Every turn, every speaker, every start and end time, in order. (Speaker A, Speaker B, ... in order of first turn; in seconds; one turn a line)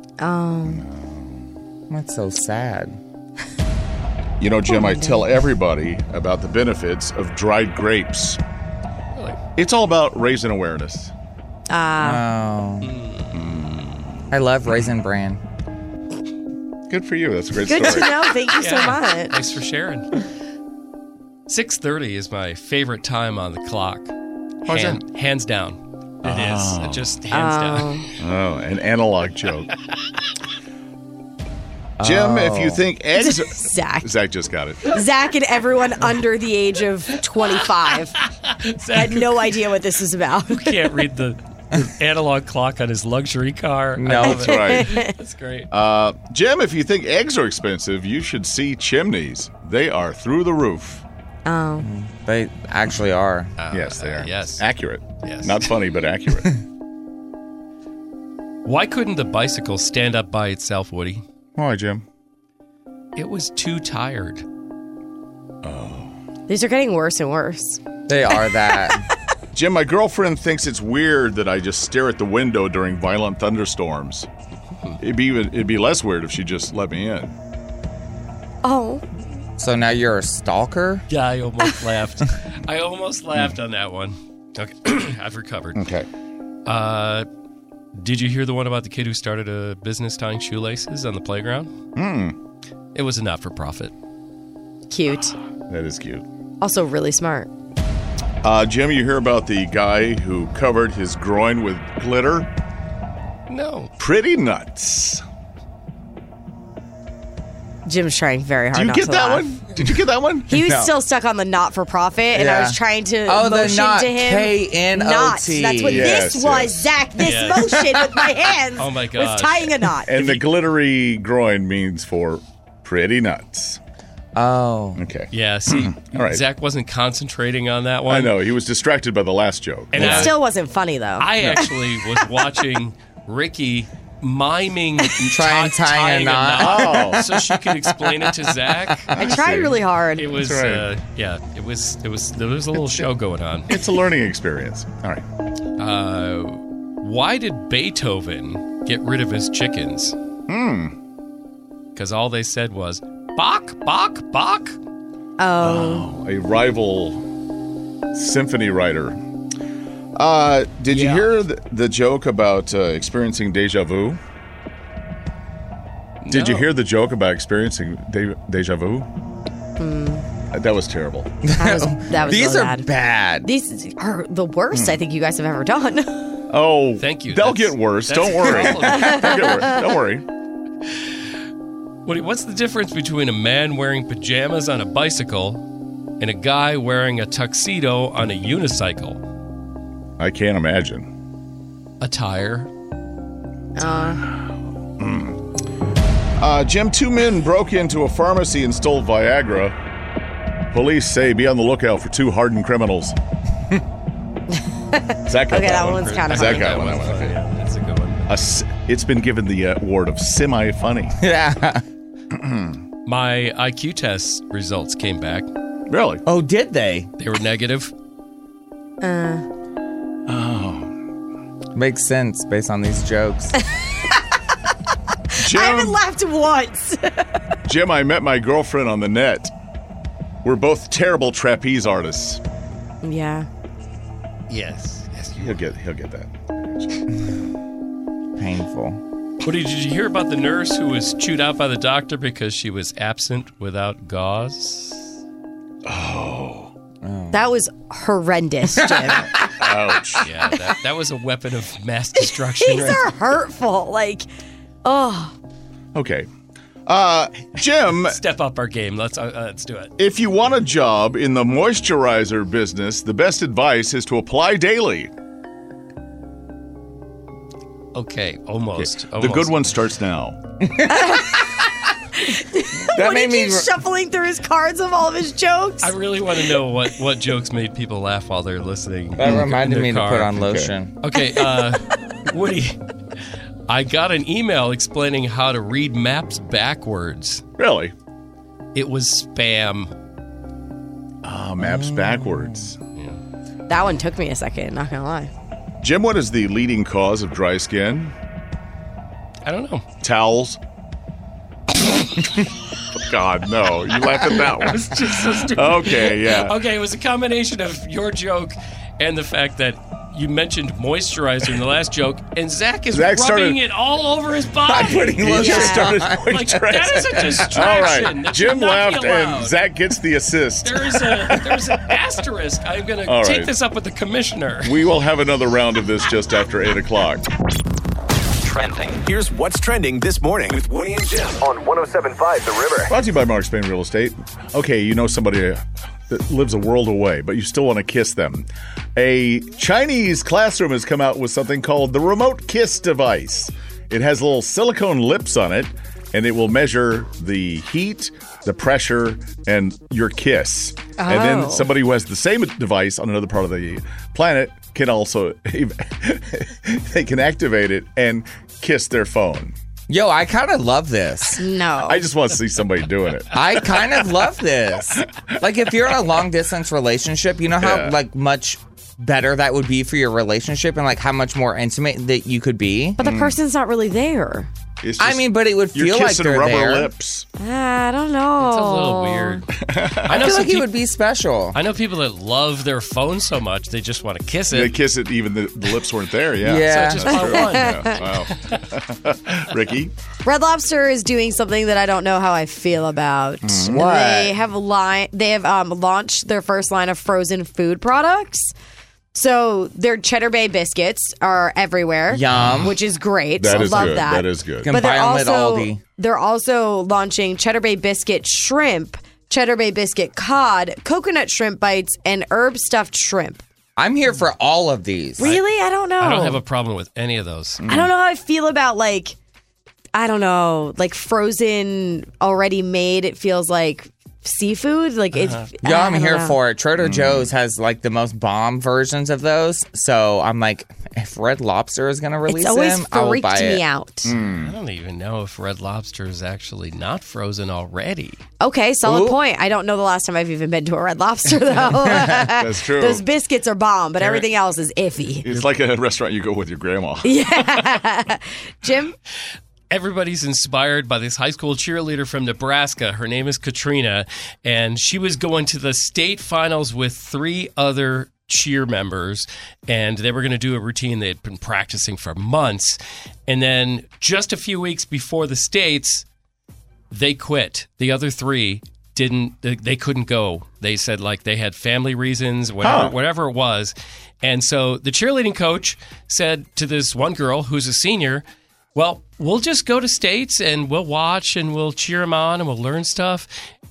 Speaker A: 0.2-0.8
Speaker B: 0.7-1.5
Speaker C: 1.9-3.0
Speaker B: 4.4-8.4
Speaker A: 4.7-5.3
Speaker D: 9.1-9.4
Speaker B: 9.6-11.1
Speaker A: 11.7-12.2
Speaker C: 12.0-12.9
Speaker D: 12.8-13.5
Speaker B: 13.3-14.3
Speaker C: 14.3-15.4
Speaker B: 16.9-18.1
Speaker A: 17.7-19.3
Speaker D: 18.6-20.2
Speaker D: 21.5-24.1
Speaker D: 24.7-28.0
Speaker B: 24.7-25.0
Speaker B: 26.2-27.2
Speaker A: 27.3-28.1
Speaker B: 28.2-29.7
Speaker C: 32.0-32.8
Speaker B: 32.0-35.0
Speaker A: 33.2-34.1
Speaker A: 34.9-38.1
Speaker D: 38.4-39.6
Speaker A: 38.9-41.0
Speaker D: 40.5-45.7
Speaker C: 44.0-44.5
Speaker A: 44.2-45.1
Speaker B: 44.3-45.0
Speaker B: 45.7-51.0
Speaker A: 51.5-51.9
Speaker C: 51.8-53.5
Speaker D: 53.6-54.6
Speaker B: 53.7-56.6
Speaker D: 55.2-55.7
Speaker D: 58.6-61.2
Speaker B: 61.6-62.0
Speaker D: 63.2-64.4
Speaker B: 65.6-66.1
Speaker A: 66.5-67.8
Speaker C: 68.1-69.0
Speaker A: 68.3-68.9
Speaker B: 69.5-74.3
Speaker B: 75.0-77.4
Speaker A: 78.6-79.0
Speaker C: 79.6-81.0
Speaker D: 81.1-85.9
Speaker B: 85.8-86.1
Speaker D: 86.7-87.3
Speaker D: 88.0-91.7
Speaker B: 92.0-92.4
Speaker D: 93.0-93.9
Speaker A: 94.9-95.3
Speaker B: 95.7-96.3
Speaker A: 96.6-97.5
Speaker B: 98.4-102.5
Speaker D: 103.5-103.9
Speaker B: 104.0-105.2
Speaker A: 107.9-109.5
Speaker B: 108.7-110.6
Speaker A: 110.5-120.1
Speaker C: 110.5-110.9
Speaker C: 112.3-116.2
Speaker B: 115.9-116.9
Speaker D: 117.2-117.9
Speaker D: 118.8-120.4
Speaker B: 120.1-123.8
Speaker C: 124.3-125.0
Speaker B: 125.0-126.4
Speaker D: 125.3-128.4
Speaker B: 128.1-130.3
Speaker D: 129.9-130.4
Speaker A: 130.0-131.7
Speaker D: 131.2-139.1
Speaker C: 135.2-137.2
Speaker B: 136.6-137.3
Speaker B: 139.1-139.8
Speaker A: 139.1-140.3
Speaker D: 140.2-143.8
Speaker B: 140.3-140.9
Speaker B: 143.7-145.2
Speaker D: 145.8-150.2
Speaker B: 150.5-150.9
Speaker D: 152.0-154.8
Speaker A: 155.4-156.1
Speaker B: 155.6-157.2
Speaker B: 158.1-159.2
Speaker B: 160.2-164.2
Speaker D: 160.9-161.3
Speaker D: 166.2-166.7
Speaker B: 166.3-169.1
Speaker A: 169.8-170.3
Speaker B: 170.5-171.3
Speaker C: 171.4-173.5
Speaker A: 171.6-172.9
Speaker A: 173.4-176.3
Speaker B: 174.7-175.0
Speaker B: 176.5-180.2
Speaker D: 177.0-179.8
Speaker A: 179.0-179.5
Speaker D: 182.1-185.6
Speaker D: 186.2-189.2
Speaker B: 190.2-191.1
Speaker D: 192.0-192.7
Speaker A: 193.8-194.2
Speaker B: 195.0-195.4
Speaker B: 196.4-199.8
Speaker B: 200.7-203.2
Speaker A: 204.5-206.9
Speaker B: 205.3-207.4
Speaker D: 206.0-208.3
Speaker B: 208.3-211.2
Speaker C: 211.2-211.8
Speaker B: 212.3-212.8
Speaker D: 213.1-215.5
Speaker B: 215.9-216.2
Speaker C: 216.2-217.1
Speaker D: 217.2-217.9
Speaker A: 219.0-219.5
Speaker B: 220.3-220.9
Speaker C: 221.8-223.6
Speaker A: 223.8-224.2
Speaker A: 225.3-227.3
Speaker B: 225.4-226.0
Speaker B: 227.7-229.5
Speaker B: 230.4-232.4
Speaker A: 233.0-233.5
Speaker D: 234.5-235.6
Speaker B: 235.4-237.3
Speaker C: 238.4-239.0
Speaker D: 239.4-245.1
Speaker B: 245.8-246.7
Speaker C: 247.0-247.4
Speaker A: 247.3-249.3
Speaker C: 248.8-249.4
Speaker B: 249.5-250.3
Speaker D: 250.2-253.1
Speaker A: 252.2-254.3
Speaker A: 254.8-255.3
Speaker B: 255.9-256.3
Speaker B: 256.9-258.2
Speaker D: 257.9-259.9
Speaker B: 260.0-265.1
Speaker D: 267.9-269.6
Speaker B: 268.8-270.6
Speaker C: 270.7-271.3
Speaker A: 270.9-271.6
Speaker A: 272.1-275.9
Speaker C: 272.8-273.7
Speaker D: 275.8-282.8
Speaker C: 279.2-280.9
Speaker A: 281.2-281.4
Speaker D: 283.7-287.4
Speaker B: 287.6-287.9
Speaker D: 288.8-289.9
Speaker B: 291.2-292.8
Speaker C: 291.6-292.7
Speaker A: 293.7-295.3
Speaker B: 295.8-298.1
Speaker D: 299.4-299.9
Speaker B: 300.0-300.6
Speaker B: 302.9-306.6
Speaker D: 304.3-315.4
Speaker B: 312.9-313.6
Speaker C: 314.7-317.8
Speaker B: 315.2-321.8
Speaker A: 315.4-316.0
Speaker D: 316.1-319.6
Speaker D: 320.6-324.8
Speaker B: 323.1-323.5
Speaker B: 324.6-327.3
Speaker E: 328.5-332.9
Speaker B: 332.9-359.6
Speaker A: 351.0-351.7
Speaker C: 359.9-361.4
Speaker A: 361.4-362.1
Speaker B: 361.9-363.3
Speaker C: 363.3-373.0
Speaker B: 367.6-367.9
Speaker A: 373.0-374.5
Speaker B: 373.0-373.4
Speaker B: 374.8-377.3
Speaker C: 375.0-376.9
Speaker A: 377.4-379.4
Speaker D: 378.4-379.5
Speaker B: 379.6-380.4
Speaker D: 380.1-380.7
Speaker C: 380.1-381.6
Speaker D: 381.5-384.8
Speaker B: 384.5-389.9
Speaker C: 386.4-387.2
Speaker D: 386.5-388.5
Speaker A: 387.2-388.0
Speaker A: 390.2-398.5
Speaker B: 393.4-393.8
Speaker C: 393.6-394.4
Speaker A: 399.1-413.4
Speaker C: 402.1-402.8
Speaker B: 402.3-402.7
Speaker B: 403.4-404.7
Speaker C: 403.5-404.0
Speaker C: 404.6-405.8
Speaker C: 413.8-415.3
Speaker A: 415.2-416.4
Speaker D: 416.0-417.6
Speaker B: 417.6-417.9
Speaker A: 417.7-419.2
Speaker A: 419.9-426.4
Speaker D: 425.1-425.4
Speaker C: 425.6-433.6
Speaker B: 426.8-427.3
Speaker A: 432.3-434.1
Speaker B: 434.1-434.5
Speaker D: 434.1-438.2
Speaker A: 438.4-445.3
Speaker C: 438.8-439.2
Speaker B: 442.0-443.0
Speaker D: 444.0-444.3
Speaker B: 445.2-447.8
Speaker A: 447.0-448.9
Speaker D: 449.7-466.1
Speaker D: 466.9-483.3
Speaker B: 472.6-472.9